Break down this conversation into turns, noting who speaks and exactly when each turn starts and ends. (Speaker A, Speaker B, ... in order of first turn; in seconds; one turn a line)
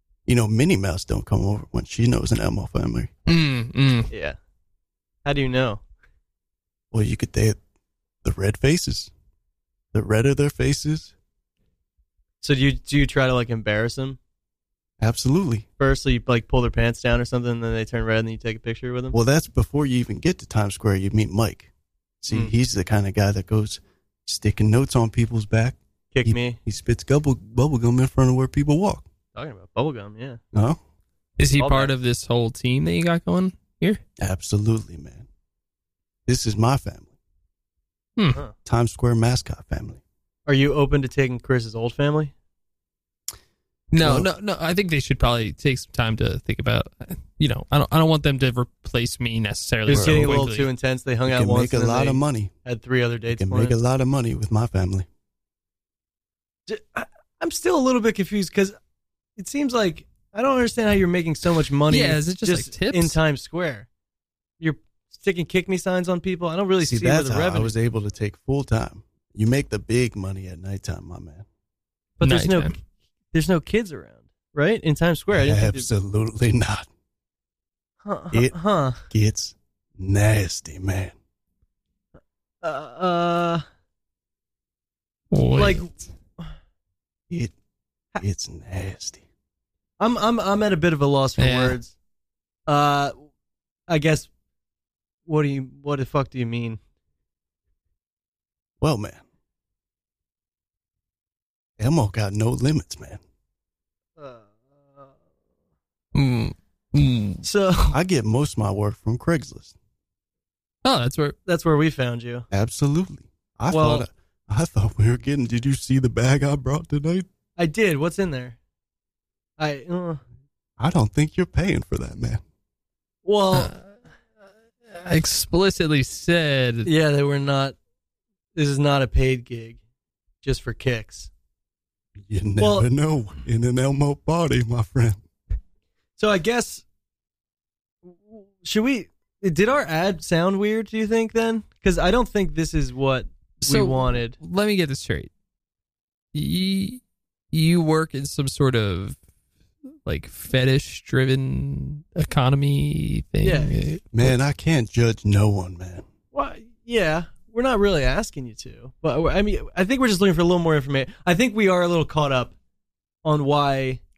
Speaker A: 0.3-3.1
Speaker B: 3.3-4.1
Speaker C: 4.1-4.4
Speaker C: 5.2-5.8
Speaker A: 6.9-7.6
Speaker A: 8.2-9.1
Speaker A: 9.9-11.1
Speaker C: 12.4-14.2
Speaker A: 15.0-15.7
Speaker C: 15.8-19.1
Speaker A: 19.1-21.7
Speaker A: 22.2-29.1
Speaker C: 26.1-26.6
Speaker C: 29.3-30.4
Speaker A: 30.5-30.8
Speaker B: 31.4-34.0
Speaker C: 31.6-31.9
Speaker A: 34.2-35.2
Speaker A: 36.3-37.1
Speaker B: 38.2-38.4
Speaker A: 38.6-40.0
Speaker C: 40.5-42.3
Speaker B: 43.9-50.7
Speaker A: 44.0-44.3
Speaker C: 49.9-53.8
Speaker A: 49.9-50.4
Speaker A: 51.2-52.5
Speaker A: 53.3-55.1
Speaker C: 56.7-58.8
Speaker C: 59.4-63.9
Speaker B: 61.9-63.2
Speaker C: 64.6-67.7
Speaker A: 66.8-71.4
Speaker C: 72.2-72.8
Speaker B: 72.2-72.7
Speaker C: 73.3-75.9
Speaker A: 75.3-76.9
Speaker C: 78.0-79.0
Speaker A: 78.3-81.1
Speaker C: 82.6-83.6
Speaker B: 85.3-85.9
Speaker C: 85.5-86.5
Speaker A: 88.2-89.2
Speaker C: 90.0-91.9
Speaker B: 91.4-91.8
Speaker C: 92.7-93.2
Speaker C: 93.9-94.3
Speaker C: 95.2-96.8
Speaker A: 98.8-99.2
Speaker A: 101.8-103.2
Speaker C: 104.2-105.1
Speaker B: 106.1-107.4
Speaker C: 107.4-108.0
Speaker A: 107.9-109.7
Speaker B: 110.8-111.3
Speaker C: 111.5-112.5
Speaker A: 112.5-117.3
Speaker C: 113.7-114.1
Speaker C: 117.6-118.6
Speaker C: 119.6-120.2
Speaker A: 120.8-122.4
Speaker C: 123.2-123.7
Speaker B: 124.9-126.9
Speaker C: 126.8-127.8
Speaker C: 128.6-129.8
Speaker C: 130.4-131.3
Speaker A: 132.2-135.2
Speaker C: 132.6-132.9
Speaker C: 136.2-136.8
Speaker C: 138.1-144.4
Speaker B: 143.6-145.3
Speaker B: 146.3-147.0
Speaker B: 147.5-149.2
Speaker B: 150.0-154.4
Speaker C: 153.4-153.8
Speaker A: 154.1-156.1
Speaker C: 156.3-162.5
Speaker C: 163.2-164.0